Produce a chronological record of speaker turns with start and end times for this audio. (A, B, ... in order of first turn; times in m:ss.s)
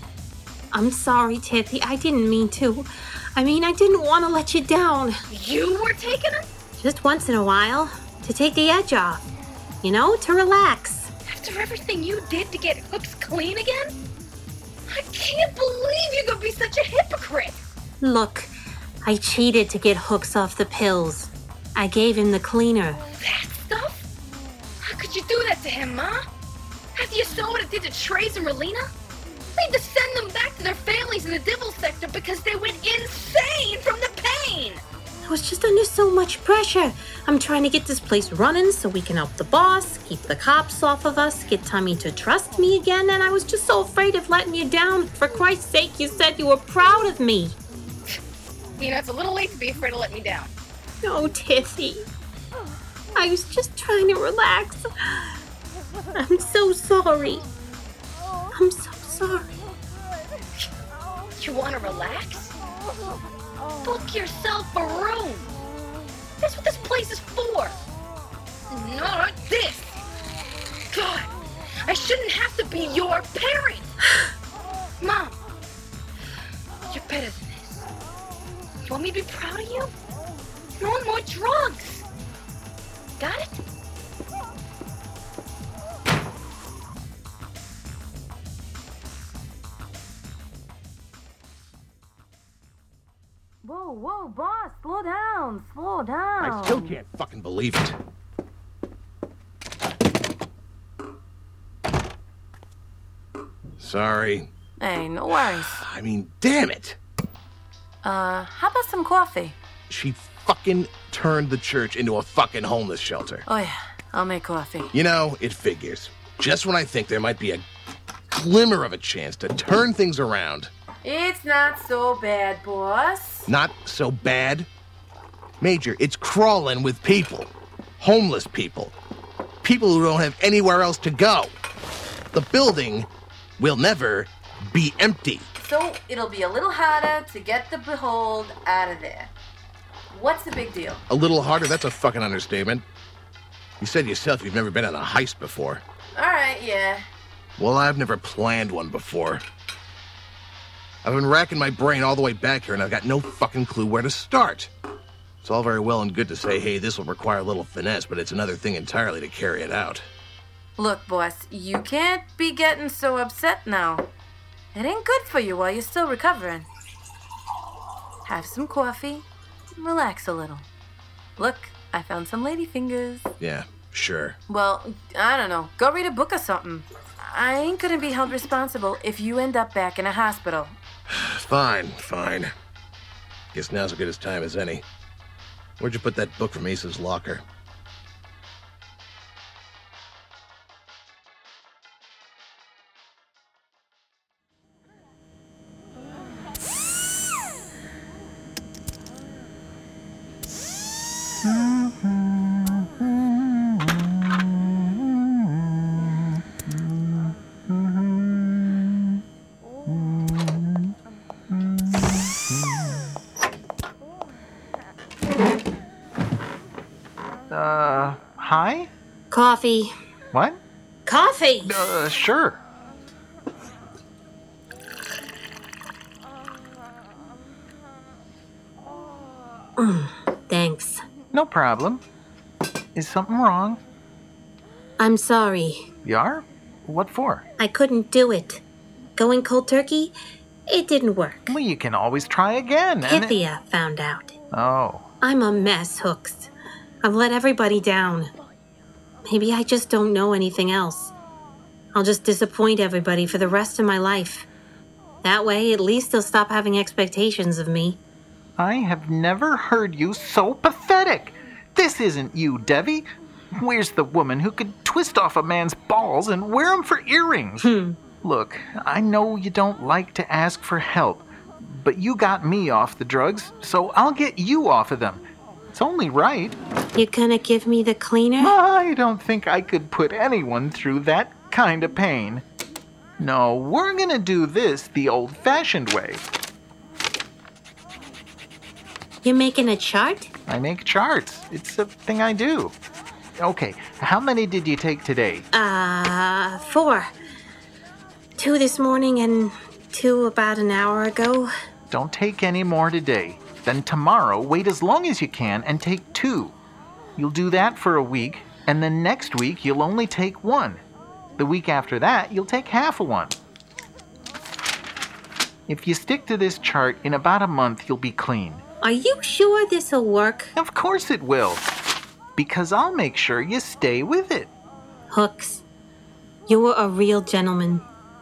0:00.7-0:05.2 A
0:05.3-0:06.4 B
0:06.8-0:09.2 A
0:09.8-0:11.1 A
0:11.3-0:13.9 B
0:14.9-0:17.6 B
0:18.0-0:18.5 A
0:19.0-0:23.0 A
0:23.2-0:24.0 B
0:24.8-0:26.2 B
0:27.0-0:28.8 B
0:29.5-0:34.8 B
0:35.2-0:47.5 A
0:48.8-0:50.5 B
0:51.0-0:52.0 A
0:53.1-0:54.8 A
0:56.1-0:57.4 A
0:58.5-0:59.5 A
1:01.4-1:02.5 B
1:03.8-1:05.5 B
1:06.4-1:07.8 B
1:08.7-1:10.0 B
1:10.9-1:11.3 B
1:11.8-1:13.9 B
1:15.0-1:15.4 B
1:16.9-1:17.8 B
1:18.9-1:19.9 B
1:20.8-1:22.0 B
1:23.2-1:23.6 B
1:33.6-1:37.0 C
1:36.4-1:38.0 D
1:43.8-1:44.5 D
1:44.8-1:45.8 C
1:45.3-1:47.0 D
1:48.0-1:49.6 C
1:49.9-1:53.4 D
1:53.4-1:54.9 C
1:54.9-1:57.6 D
1:58.3-2:00.7 D
2:01.0-2:03.5 C
2:03.5-2:04.7 D
2:05.6-2:08.9 D
2:09.6-2:11.6 D
2:12.3-2:13.1 D
2:13.6-2:15.5 D
2:15.6-2:19.3 C
2:20.1-2:21.0 C
2:21.1-2:22.8 D
2:23.8-2:25.8 D
2:26.1-2:27.0 C
2:27.6-2:29.4 D
2:31.0-2:34.7 D
2:35.4-2:40.1 D
2:40.8-2:44.1 C
2:44.7-2:46.7 C
2:48.2-2:49.2 C
2:49.8-2:50.7 C
2:51.4-2:53.3 C
2:53.4-2:54.4 D
2:54.5-3:00.8 C
3:01.1-3:02.5 D
3:03.5-3:04.8 D
3:05.8-3:07.4 D
3:21.4-3:29.2 E
3:29.8-3:30.9 E
3:31.5-3:33.1 E
3:37.5-3:38.9 E
3:39.3-3:39.9 A
3:40.3-3:40.6 E
3:41.0-3:41.8 A
3:41.6-3:42.6 E
3:49.8-3:51.0 A
3:51.3-3:52.0 E
3:52.9-3:53.8 E
3:55.0-3:55.8 A
3:56.0-3:57.4 E
3:57.6-3:58.6 A
3:59.2-4:00.1 A
4:00.7-4:01.6 A
4:01.4-4:03.4 E
4:03.0-4:04.3 A
4:04.5-4:05.1 E
4:05.2-4:06.5 A
4:07.0-4:08.3 A
4:09.2-4:11.1 A
4:11.9-4:14.5 A
4:15.2-4:18.0 A
4:18.6-4:36.6 E
4:27.6-4:28.0 A
4:37.0-4:38.6 A
4:38.4-4:42.4 E
4:43.2-4:46.2 E
4:49.2-4:50.3 A
4:50.5-4:52.7 E
4:53.4-4:55.4 E
4:55.5-4:57.1 A
4:58.4-5:01.5 A
5:01.9-5:06.5 E
5:07.2-5:10.8 E
5:11.4-5:13.4 E
5:15.7-5:18.6 E
5:18.8-5:20.5 A
5:20.6-5:21.6 E
5:22.4-5:24.5 E
5:25.1-5:25.6 A
5:26.5-5:27.8 A